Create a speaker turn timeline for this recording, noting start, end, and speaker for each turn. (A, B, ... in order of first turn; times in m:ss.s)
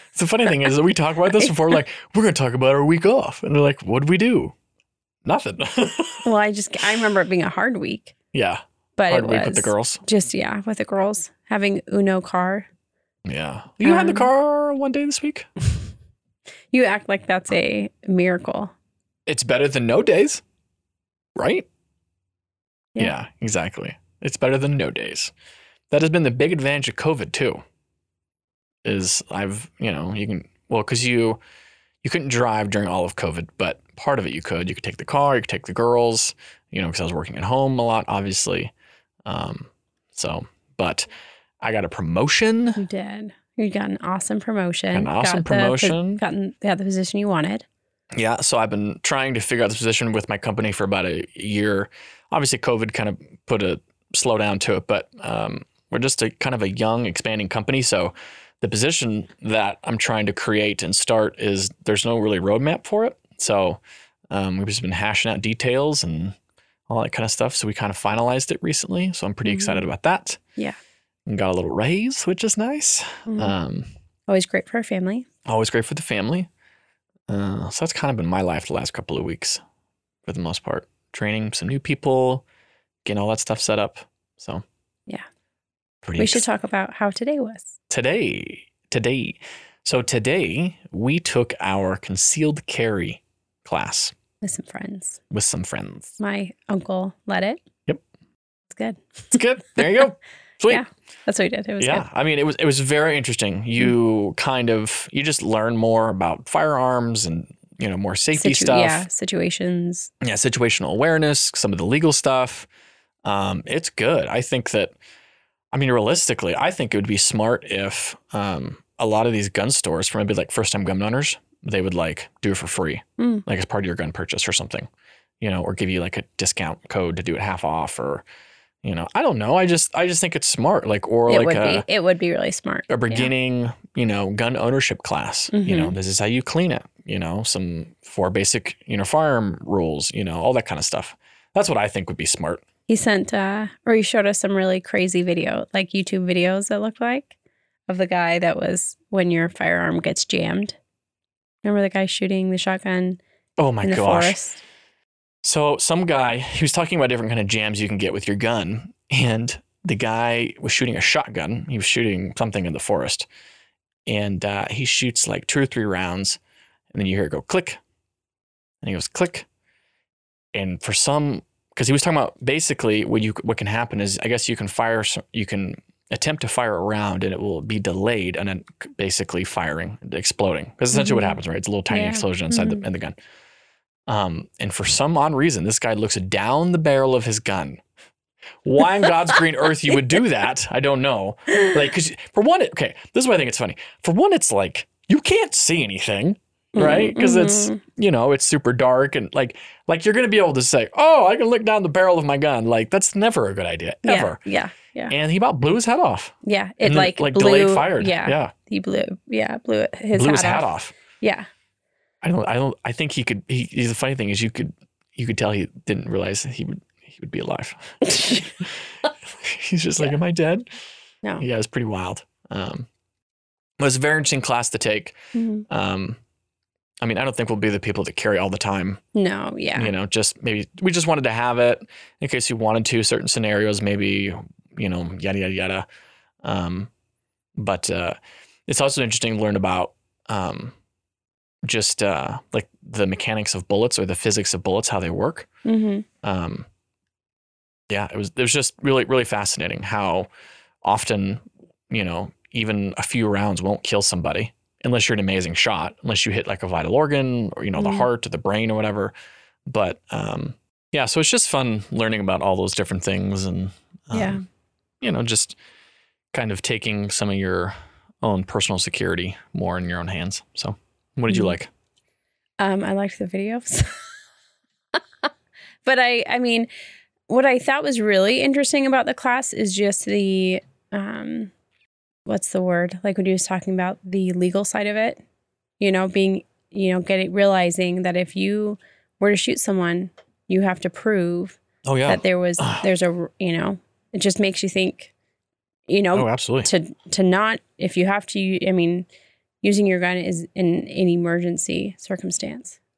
0:00.1-0:04.5 A
0:01.4-0:01.7 B
0:05.2-0:06.3 A
0:06.2-0:08.1 B
0:08.3-0:10.0 A
0:09.0-0:12.7 B
0:13.2-0:15.5 A
0:13.8-0:14.3 B
0:16.7-0:18.7 B
0:19.3-0:20.4 A
0:21.4-0:21.7 A
0:23.0-0:25.3 A
0:25.9-0:27.6 A
0:28.8-0:31.4 A
0:32.0-0:38.7 A
0:39.2-0:41.1 A
0:41.6-0:42.8 A
0:42.8-0:47.6 B
0:44.9-0:46.2 A
0:48.1-1:03.8 A
1:04.3-1:06.4 A
1:06.9-1:10.4 A
1:09.4-1:09.8 B
1:11.3-1:13.9 A
1:14.3-1:15.2 B
1:15.4-1:16.5 A
1:17.3-1:19.6 A
1:20.2-1:22.4 A
1:23.0-1:24.6 A
1:26.0-1:26.4 A
1:26.2-1:27.7 B
1:27.9-1:34.1 A
1:34.4-1:35.2 B
1:35.3-1:36.2 A
1:36.2-1:37.6 B
1:38.7-1:39.8 B
1:39.3-1:40.8 A
1:40.7-1:42.0 B
1:41.8-1:49.1 A
1:48.3-1:50.1 B
1:50.2-1:52.7 A
1:53.2-1:54.9 A
1:55.7-2:04.9 A
2:03.2-2:03.4 B
2:05.4-2:08.2 A
2:08.8-2:11.8 A
2:11.3-2:13.3 B
2:12.9-2:22.6 A
2:15.5-2:15.9 B
2:22.9-2:27.3 B
2:27.9-2:30.8 B
2:31.6-2:33.2 B
2:33.6-2:34.4 A
2:33.8-2:34.6 B
2:35.4-2:43.2 A
2:44.0-2:46.4 A
2:46.9-2:47.8 A
2:48.8-2:49.5 A
2:50.5-3:03.1 A
3:00.9-3:01.4 B
3:01.9-3:02.8 B
3:04.1-3:07.8 A
3:08.6-3:24.4 A
3:16.8-3:17.8 B
3:24.0-3:25.1 B
3:25.1-3:28.5 A
3:26.4-3:30.7 B
3:30.1-3:30.9 A
3:31.2-3:31.5 B
3:32.2-3:38.8 A
3:38.0-3:38.5 B
3:39.4-3:40.7 A
3:41.4-3:42.9 A
3:43.8-3:45.2 A
3:45.3-3:45.6 B
3:45.7-3:46.2 A
3:47.0-3:49.0 A
3:49.1-3:49.9 B
3:49.8-3:55.8 A
3:56.4-3:56.9 A
3:57.6-4:00.7 A
4:01.6-4:05.5 A
4:05.6-4:06.0 B
4:06.2-4:06.7 A
4:07.9-4:10.3 A
4:10.8-4:19.1 A
4:17.8-4:18.1 B
4:19.6-4:24.4 A
4:24.1-4:24.4 B
4:25.0-4:25.6 A
4:26.3-4:31.7 A
4:31.3-4:31.5 B
4:32.6-4:34.1 B
4:35.8-4:36.7 B
4:37.3-4:41.5 B
4:42.2-4:45.2 B
4:45.8-4:55.1 B
4:51.8-4:52.8 A
4:55.9-4:59.1 B
4:56.1-4:56.7 A
4:59.6-5:02.8 B